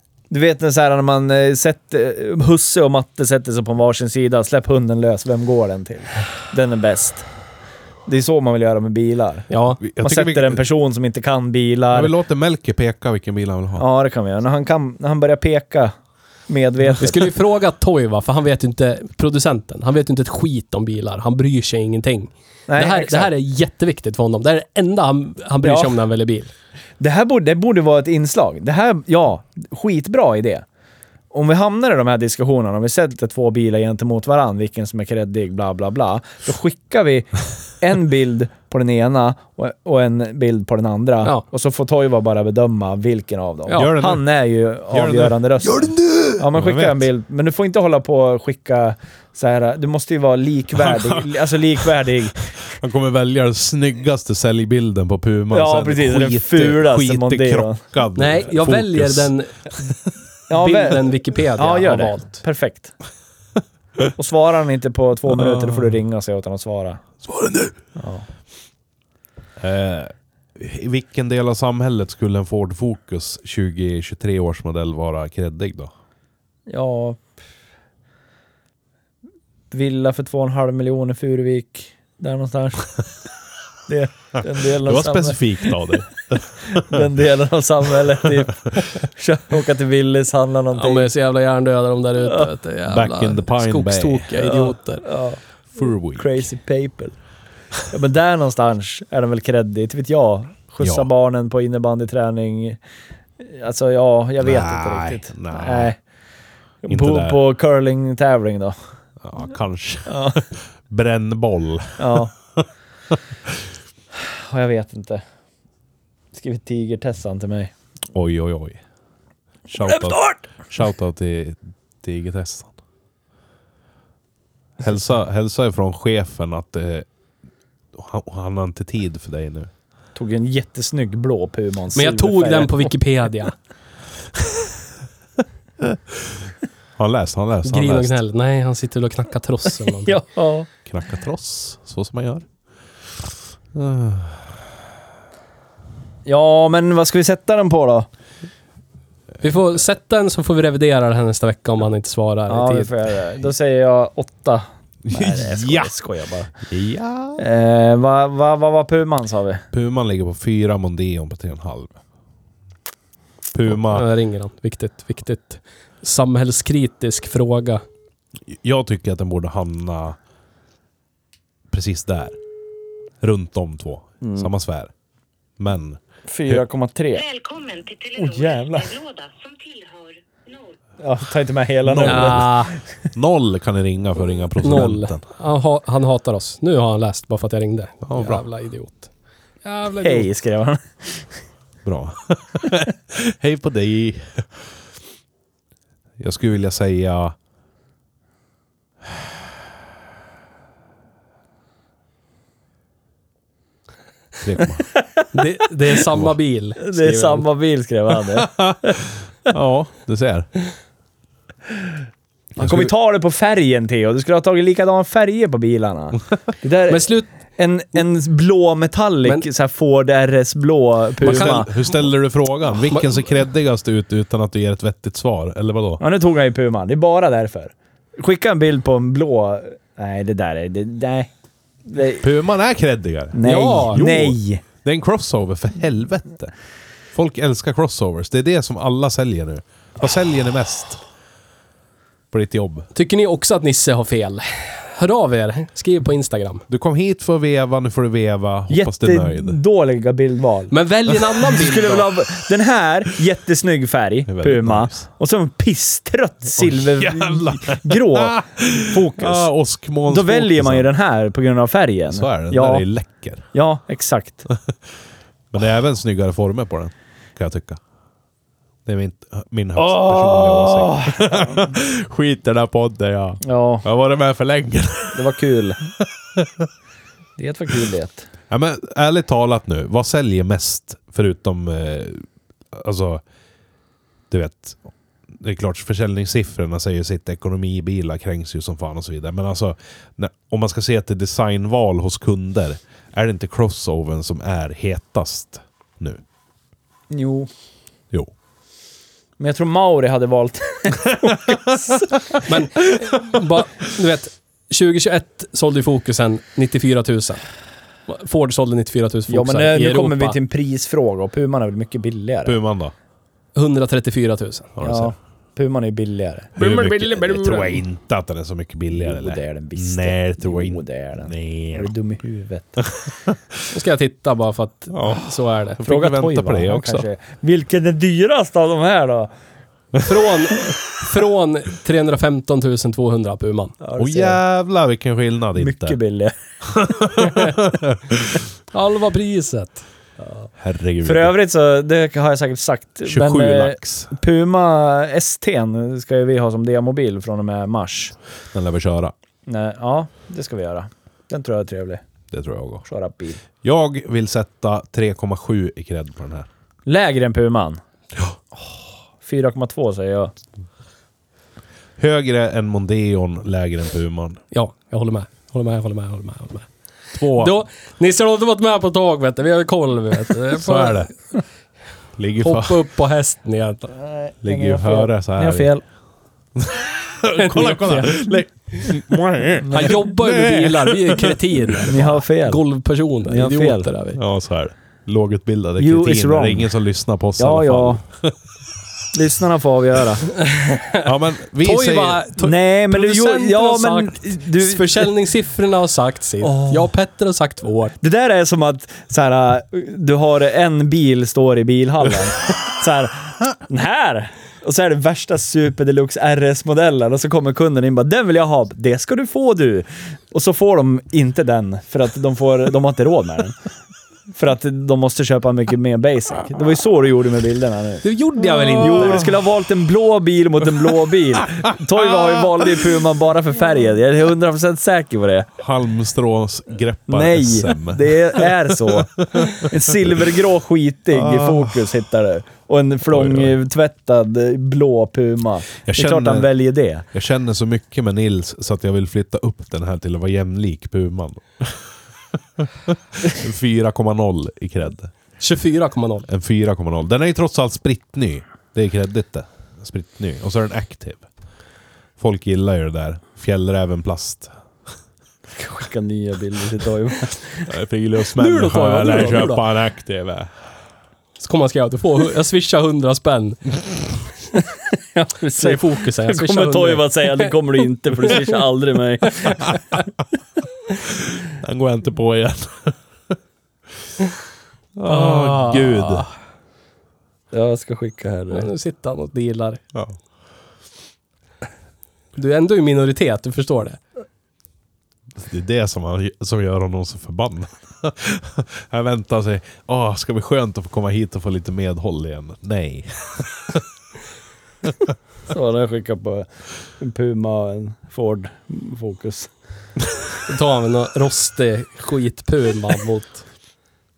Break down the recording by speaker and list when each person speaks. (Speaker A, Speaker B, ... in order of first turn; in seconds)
Speaker A: 0.3-7.3, 8.1-12.1, 13.8-15.9, 16.5-17.3, 22.7-23.3, 25.6-26.0, 27.0-30.6, 31.3-52.4, 55.5-57.8, 60.5-62.9, 64.2-67.0, 68.0-68.3, 76.7-77.2, 79.7-82.9, 83.9-85.8, 86.7-91.1, 94.4-95.4, 96.1-97.2, 97.9-102.8, 103.4-106.0, 106.8-108.8, 110.1-110.4, 112.0-112.3, 114.2-115.2, 116.3-117.7, 119.8-120.4, 130.2-132.9, 140.0-140.7, 146.3-148.1, 152.5-156.5, 157.4-159.6, 174.2-174.5, 176.3-177.2, 178.2-178.9, 181.0-182.7, 190.0-191.3, 204.9-205.3, 206.8-209.0, 212.6-221.7, 226.0-231.3, 231.9-232.3, 233.3-234.6, 248.7-250.7, 251.4-259.5, 260.1-262.9, 263.5-264.5, 269.8-271.7, 273.4-273.9, 275.1-275.8, 277.4-278.3, 297.1-297.5, 299.4-302.0, 309.3-312.6, 314.8-316.5, 318.9-322.9, 325.8-329.3, 333.8-334.4, 335.6-336.4, 340.2-340.5, 341.0-348.1, 349.5-352.0, 352.9-353.4, 356.9-357.8, 359.2-360.3, 374.0-375.8, 379.6-379.9, 381.9-382.6, 383.3-383.9, 385.8-386.7, 387.4-388.0, 389.1-390.3, 392.4-395.1, 396.4-396.9, 398.0-413.6, 414.4-425.5, 427.1-437.1, 455.6-457.7, 465.1-469.7, 477.5-478.7, 495.5-496.5, 497.0-499.5
Speaker B: 9.5-9.8, 17.0-26.5, 58.1-59.7, 60.5-62.4, 90.8-95.0, 131.9-133.6, 137.7-140.2, 149.4-152.9, 163.7-167.8, 182.0-182.7, 184.6-189.1, 189.6-190.3, 205.3-207.5, 216.9-217.3, 221.2-222.0, 233.4-234.0, 242.9-246.6, 250.7-252.1, 302.4-307.4, 308.1-310.4, 313.6-314.7, 316.6-317.8, 323.7-325.8, 330.0-333.8, 338.7-339.8, 364.5-366.7, 367.3-371.1, 372.4-373.9, 377.4-378.9, 379.7-384.2, 390.4-398.0, 418.0-419.3, 445.4-446.3, 458.4-459.6, 461.4-463.8, 465.6-467.5, 475.1-476.2, 478.5-479.8, 482.4-484.0, 500.5-503.4
Speaker C: 9.8-10.6, 11.9-13.8, 43.7-44.2, 44.9-47.1, 50.8-51.5, 52.6-59.3, 65.3-65.9, 67.2-67.8, 69.6-75.9, 84.8-87.0, 92.9-94.3, 95.8-96.4, 100.8-101.1, 104.4-105.9, 106.9-107.4, 109.2-112.7, 118.1-118.8, 119.7-122.7, 124.8-127.1, 127.9-129.7, 135.8-136.4, 137.0-138.2, 140.9-142.5, 143.7-144.6, 155.1-155.9, 156.7-157.4, 159.7-162.0, 163.5-164.1, 168.5-170.2, 171.7-172.4, 173.2-174.9, 175.6-176.6, 181.9-182.6, 183.1-185.2, 188.0-188.4, 191.8-194.7, 196.2-197.3, 204.4-204.9, 208.4-210.5, 212.6-212.9, 221.2-226.0, 232.2-236.5, 237.1-241.0, 242.3-242.9, 246.7-249.6, 254.3-255.1, 256.6-260.9, 262.1-263.5, 265.5-267.8, 268.9-275.3, 276.0-276.7, 278.5-283.2, 284.3-296.2, 312.4-312.9, 314.8-315.1, 316.6-321.9, 322.8-323.4, 324.9-327.1, 334.0-336.0, 336.7-338.2, 340.6-341.3, 343.1-344.1, 348.5-349.1, 352.3-352.9, 353.6-356.5, 362.0-364.4, 367.1-367.6, 370.6-371.1, 372.2-372.9, 374.4-375.7, 376.6-381.9, 384.1-388.3, 391.0-392.2, 425.6-430.2, 431.1-431.8, 433.1-433.6, 435.9-436.5, 437.1-441.8, 442.6-445.1, 446.3-451.3, 452.2-454.5, 457.7-460.5, 471.1-473.0, 475.0-476.3, 485.4-493.8
Speaker D: 177.1-180.8